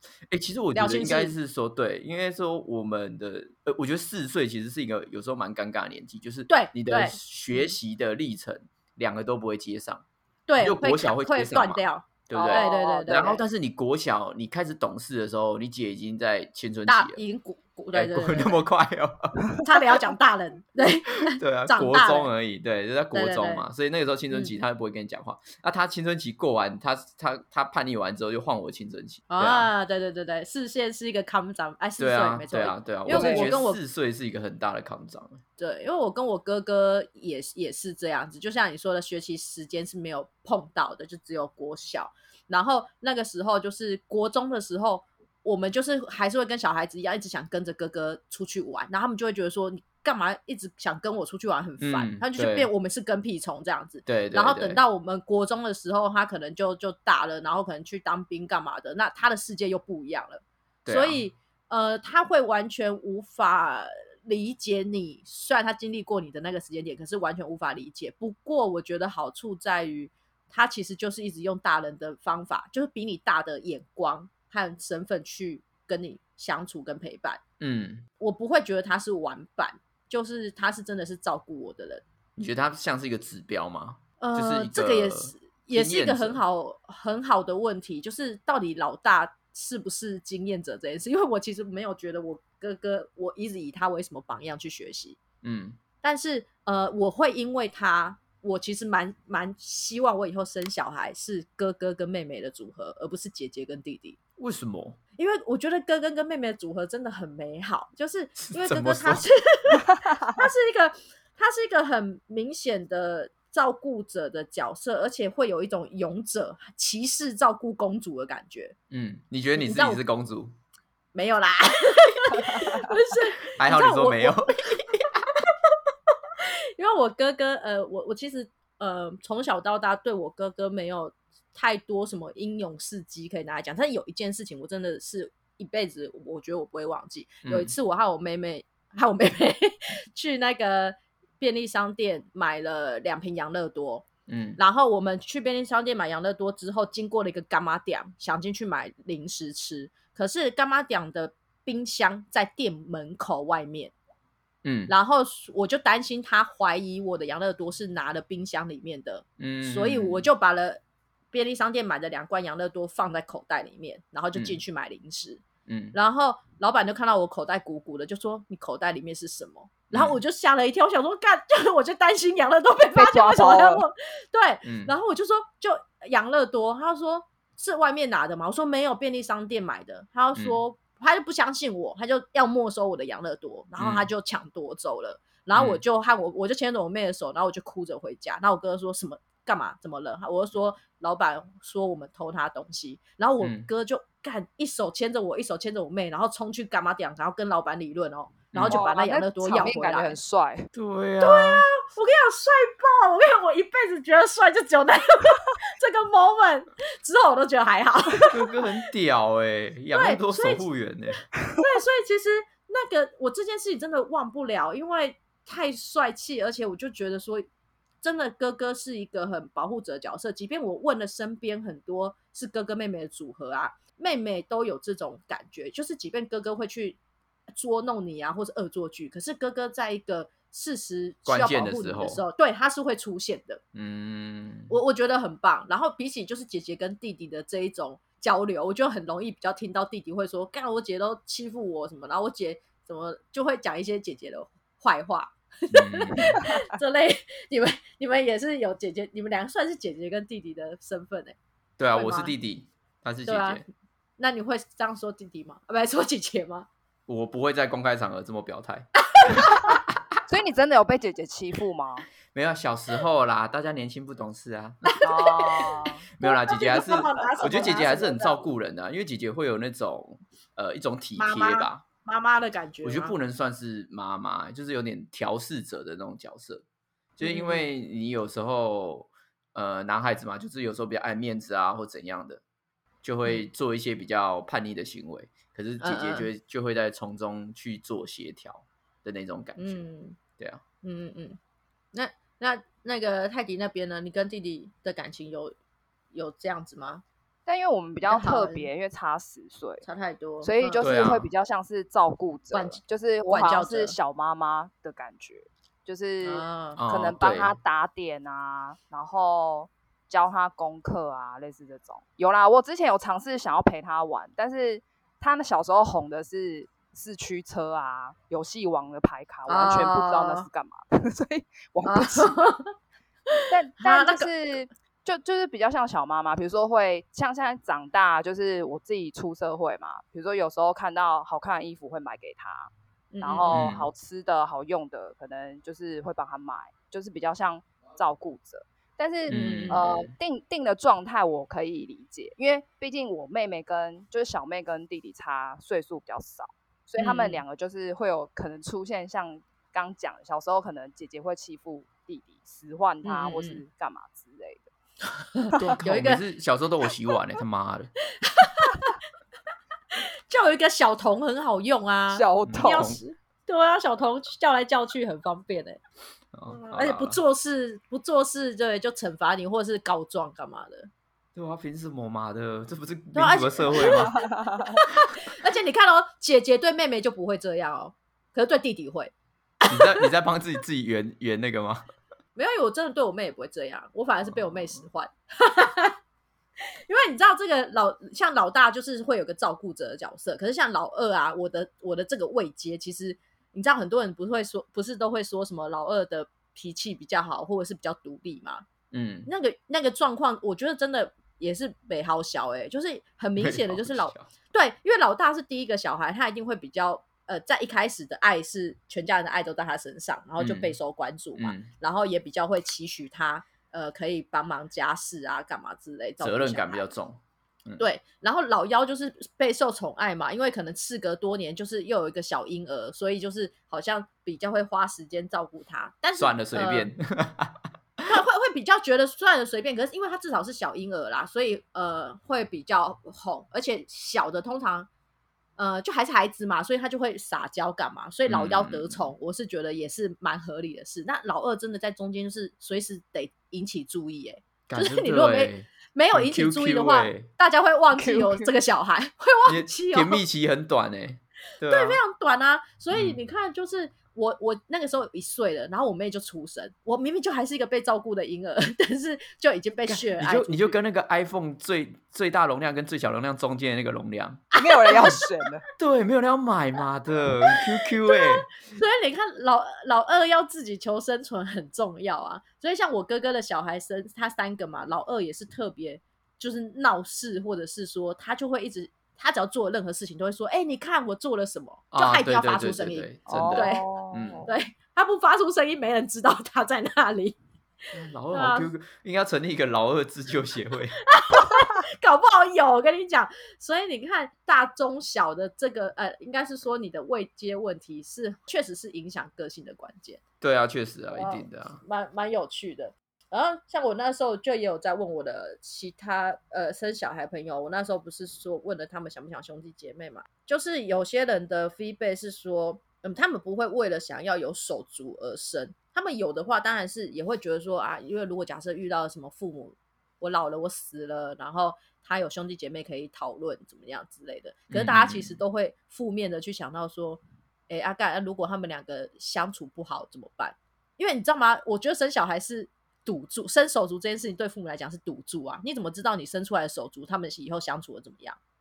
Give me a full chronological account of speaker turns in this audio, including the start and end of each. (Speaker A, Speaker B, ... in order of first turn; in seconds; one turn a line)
Speaker A: 0.3-10.0
Speaker B: 0.7-1.3
Speaker B: 6.5-7.7
Speaker B: 10.5-13.4
Speaker A: 10.6-17.2
Speaker C: 12.3-13.4
Speaker B: 16.9-18.6
Speaker A: 17.9-19.5
Speaker B: 19.6-22.3
Speaker A: 21.3-29.7
Speaker B: 23.1-23.6
Speaker B: 24.3-24.6
Speaker B: 29.3-33.8
Speaker A: 32.0-35.4
Speaker C: 33.1-33.5
Speaker B: 35.6-77.4
Speaker A: 51.8-52.7
Speaker A: 54.1-54.8
Speaker A: 60.9-61.2
Speaker A: 77.6-78.1
Speaker B: 78.2-82.0
Speaker A: 82.4-86.4
Speaker B: 84.2-95.2
Speaker A: 95.4-95.8
Speaker B: 96.0-104.2
Speaker A: 104.4-105.0
Speaker B: 105.2-118.8
Speaker A: 108.4-109.2
Speaker A: 118.9-120.5
Speaker B: 119.6-120.0
Speaker B: 121.1-124.9
Speaker A: 123.5-125.2
Speaker B: 126.4-144.1
Speaker A: 137.4-137.7
Speaker A: 144.3-144.6
Speaker B: 144.6-153.9
Speaker A: 154.6-154.9
Speaker B: 154.9-160.8
Speaker A: 159.4-160.3
Speaker B: 161.3-200.2
Speaker A: 164.3-164.6
Speaker A: 165.7-166.0
Speaker A: 169.9-170.2
Speaker C: 172.9-173.8
Speaker A: 174.6-174.9
Speaker A: 180.3-180.6
Speaker A: 183.8-184.1
Speaker A: 185.5-185.8
Speaker A: 193.4-193.7
Speaker A: 198.5-198.8
Speaker C: 198.6-200.7
Speaker A: 200.7-201.7
Speaker B: 201.2-208.3
Speaker A: 208.3-211.2
Speaker B: 209.9-210.7
Speaker B: 211.6-217.5
Speaker B: 218.0-227.0
Speaker B: 227.6-233.6
Speaker A: 231.3-232.2
Speaker A: 233.7-234.7
Speaker B: 234.7-251.4
Speaker A: 245.7-246.4
Speaker A: 251.8-253.6
Speaker B: 251.9-252.3
Speaker B: 253.3-253.6
Speaker B: 254.2-256.7
Speaker A: 257.1-258.9
Speaker B: 259.1-259.8
Speaker C: 260.3-262.1
Speaker A: 262.3-264.9
Speaker B: 264.9-265.7
Speaker C: 265.0-266.1
Speaker A: 266.2-271.8
Speaker B: 266.2-268.5
Speaker B: 271.2-273.1
Speaker A: 272.8-276.6
Speaker A: 277.2-282.4
Speaker B: 277.2-277.7
Speaker A: 283.0-289.8
Speaker B: 285.8-286.3
Speaker B: 289.6-290.2
Speaker B: 290.8-291.4
Speaker B: 291.9-295.6
Speaker B: 296.1-297.0
Speaker C: 297.5-299.9
Speaker B: 298.1-298.7
Speaker B: 299.8-300.9
Speaker C: 300.4-322.4
Speaker A: 300.8-301.3
Speaker B: 302.5-303.9
Speaker B: 306.2-306.8
Speaker A: 306.8-307.6
Speaker B: 319.5-320.5
Speaker B: 321.8-322.7
Speaker B: 323.3-324.3
Speaker C: 323.5-332.7
Speaker B: 333.1-333.6
Speaker C: 333.2-354.7
Speaker A: 333.5-333.9
Speaker A: 339.3-340.1
Speaker B: 339.3-339.9
Speaker B: 347.0-347.4
Speaker B: 353.0-353.6
Speaker B: 355.1-356.2
Speaker A: 355.6-357.9
Speaker B: 358.2-358.9
Speaker B: 360.3-365.8
Speaker C: 362.1-363.0
Speaker A: 362.4-363.0
Speaker A: 366.3-367.2
Speaker B: 366.5-370.9
Speaker A: 371.4-374.2
Speaker B: 373.1-380.1
Speaker C: 374.2-374.8
Speaker A: 379.7-381.8
Speaker B: 382.4-386.0
Speaker A: 384.3-384.8
Speaker B: 386.8-398.7
Speaker A: 398.9-399.3
Speaker B: 399.3-416.9
Speaker A: 403.4-404.3
Speaker A: 410.4-410.8
Speaker A: 411.4-411.7
Speaker A: 416.2-417.8
Speaker B: 417.8-426.9
Speaker A: 426.2-428.0
Speaker B: 428.1-434.9
Speaker B: 435.6-450.2
Speaker A: 438.3-439.1
Speaker A: 444.7-447.3
Speaker C: 447.9-448.5
Speaker A: 449.5-452.0
Speaker B: 451.7-460.8
Speaker A: 452.9-453.2
Speaker A: 459.9-464.4
Speaker B: 464.6-465.2
Speaker C: 464.6-465.6
Speaker A: 465.8-468.5
Speaker B: 468.1-483.9
Speaker A: 481.9-484.5
Speaker C: 483.3-484.5
Speaker B: 484.4-487.4
Speaker A: 487.9-491.0
Speaker B: 488.3-488.7
Speaker B: 491.0-500.2
Speaker A: 500.4-501.8
Speaker B: 501.1-538.4
Speaker A: 524.7-525.4